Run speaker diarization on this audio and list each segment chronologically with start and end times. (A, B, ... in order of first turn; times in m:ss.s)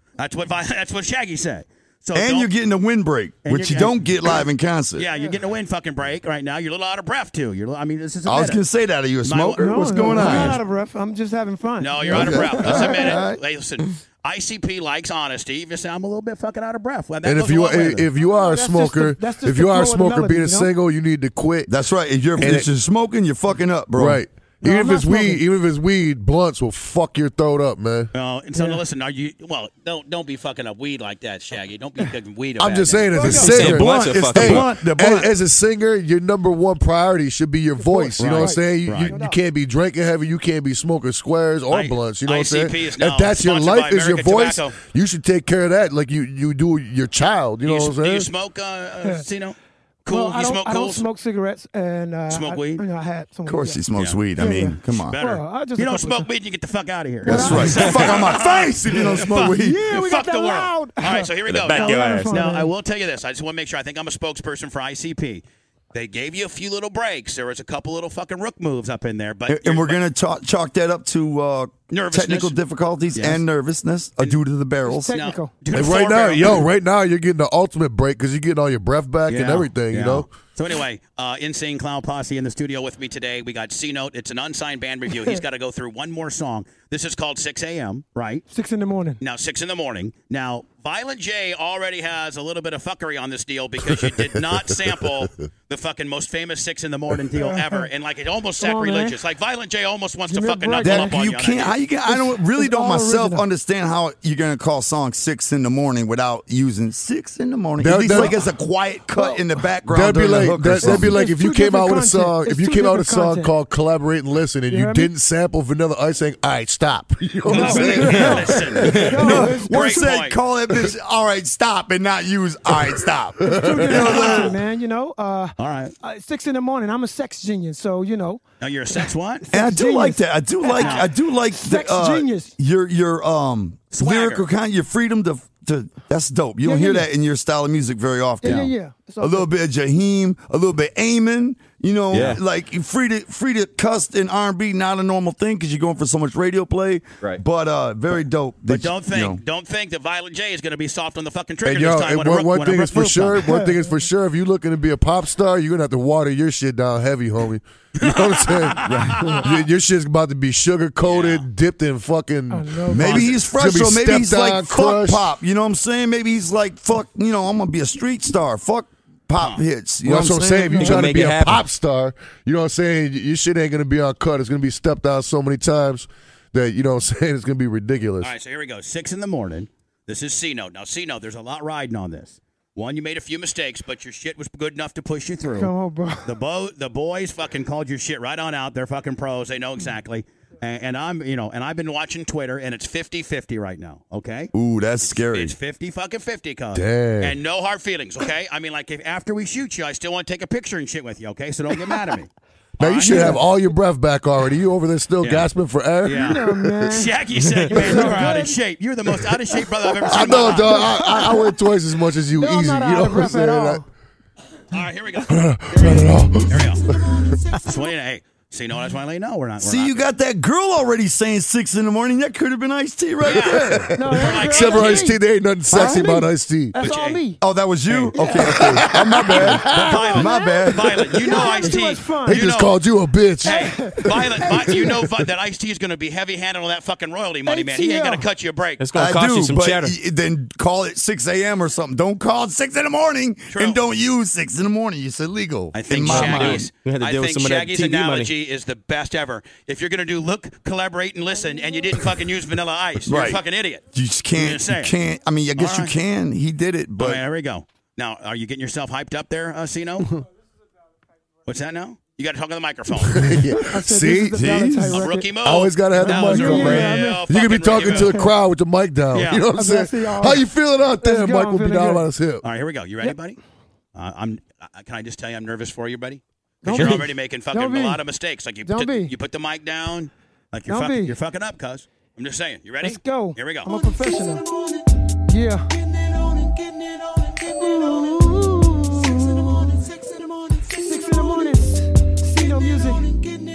0:00.2-0:02.5 A
0:02.1-0:05.1 B
0:03.4-0:04.4 A
0:05.0-0:08.6 A
0:08.3-0:10.6 B
0:09.2-0:10.6 A
0:09.6-0:13.2 C
0:11.8-0:18.1 A
0:12.1-0:13.4 B
0:17.2-0:21.7 D
0:18.2-0:20.7 C
0:21.7-0:24.2 B
0:22.4-0:22.7 D
0:24.0-0:28.1 D
0:24.6-0:25.4 C
0:28.1-0:33.2 A
0:28.6-0:28.8 C
0:32.6-0:48.3 D
0:33.1-0:33.6 C
0:33.3-0:34.7 E
0:33.3-0:35.3 B
0:37.8-0:39.4 C
0:38.2-0:39.2 A
0:41.7-0:44.8 A
0:47.6-0:51.0 A
0:50.0-0:53.8 C
0:52.3-0:52.8 A
0:53.5-0:55.2 B
0:54.0-0:54.2 A
0:54.4-0:56.3 C
0:55.1-1:10.0 A
0:57.2-1:02.7 C
0:57.3-0:59.8 B
1:01.5-1:02.3 E
1:09.5-1:15.2 B
1:11.9-1:12.6 A
1:13.1-1:13.4 A
1:14.8-1:15.6 C
1:15.1-1:16.7 A
1:15.7-1:20.3 D
1:19.3-1:28.5 A
1:28.5-1:29.2 C
1:29.2-1:41.8 A
1:34.0-1:34.7 D
1:37.3-1:37.9 C
1:38.6-1:39.2 C
1:40.3-1:41.2 C
1:40.8-1:51.2 B
1:42.1-1:43.4 C
1:47.8-1:48.4 D
1:48.1-1:48.4 C
1:49.1-1:49.4 C
1:49.9-1:59.0 D
1:50.8-1:53.5 C
1:54.7-1:55.1 C
1:57.5-2:00.2 C
1:57.5-2:00.4 A
1:58.8-1:59.2 E
1:59.0-2:04.6 B
2:03.4-2:03.9 D
2:03.4-2:08.4 C
2:04.0-2:04.5 A
2:05.6-2:06.0 A
2:08.6-2:09.5 A
2:09.0-2:12.5 C
2:09.5-2:29.4 B
2:10.7-2:11.1 A
2:13.9-2:14.4 A
2:16.6-2:17.1 C
2:18.4-2:19.5 C
2:18.4-2:18.7 A
2:22.1-2:22.4 E
2:28.7-2:33.5 A
2:31.6-2:45.2 D
2:33.4-2:34.0 C
2:38.0-2:39.5 A
2:38.8-2:39.4 B
2:41.0-2:41.5 A
2:42.5-2:43.3 C
2:42.9-2:51.2 B
2:50.0-2:58.3 D
2:50.8-2:51.6 E
2:58.2-3:05.7 A
3:05.5-3:06.3 C
3:06.2-3:23.4 A
3:14.5-3:15.6 B
3:16.7-3:17.4 D
3:22.8-3:27.0 D
3:23.0-3:23.4 C
3:25.2-3:25.5 A
3:26.0-3:31.1 A
3:26.1-3:27.2 C
3:27.7-3:28.6 C
3:30.0-3:31.6 C
3:30.0-3:33.8 D
3:32.4-3:33.9 C
3:34.7-3:36.9 A
3:35.2-3:37.2 D
3:36.9-3:37.6 C
3:37.5-3:40.0 A
3:39.6-3:44.0 B
3:43.2-3:45.1 A
3:43.3-3:46.8 D
3:43.9-3:47.4 C
3:45.7-3:46.2 B
3:46.8-3:47.2 A
3:47.4-3:51.4 B
3:47.9-3:48.2 A
3:48.1-3:52.5 C
3:48.4-3:50.0 D
3:49.7-3:52.8 A
3:52.3-3:54.9 D
3:53.4-3:55.1 C
3:53.4-3:58.8 A
3:57.5-3:58.3 C
3:58.8-4:00.0 E
3:59.0-4:06.7 B
4:03.5-4:03.8 A
4:05.7-4:14.9 A
4:06.0-4:08.3 E
4:13.1-4:17.2 B
4:15.6-4:15.9 A
4:17.0-4:20.2 A
4:21.5-4:23.4 A
4:23.1-4:24.5 D
4:23.5-4:28.4 C
4:24.4-4:25.0 B
4:24.9-4:28.2 A
4:25.4-4:32.4 D
4:29.1-4:29.4 A
4:29.3-4:32.1 C
4:32.4-4:33.4 A
4:34.0-4:43.8 A
4:36.6-4:38.0 C
4:36.7-4:37.0 E
4:38.6-4:39.1 C
4:40.7-4:41.2 C
4:42.8-4:44.5 C
4:45.3-4:45.8 C
4:47.2-4:49.9 C
4:50.6-4:53.3 C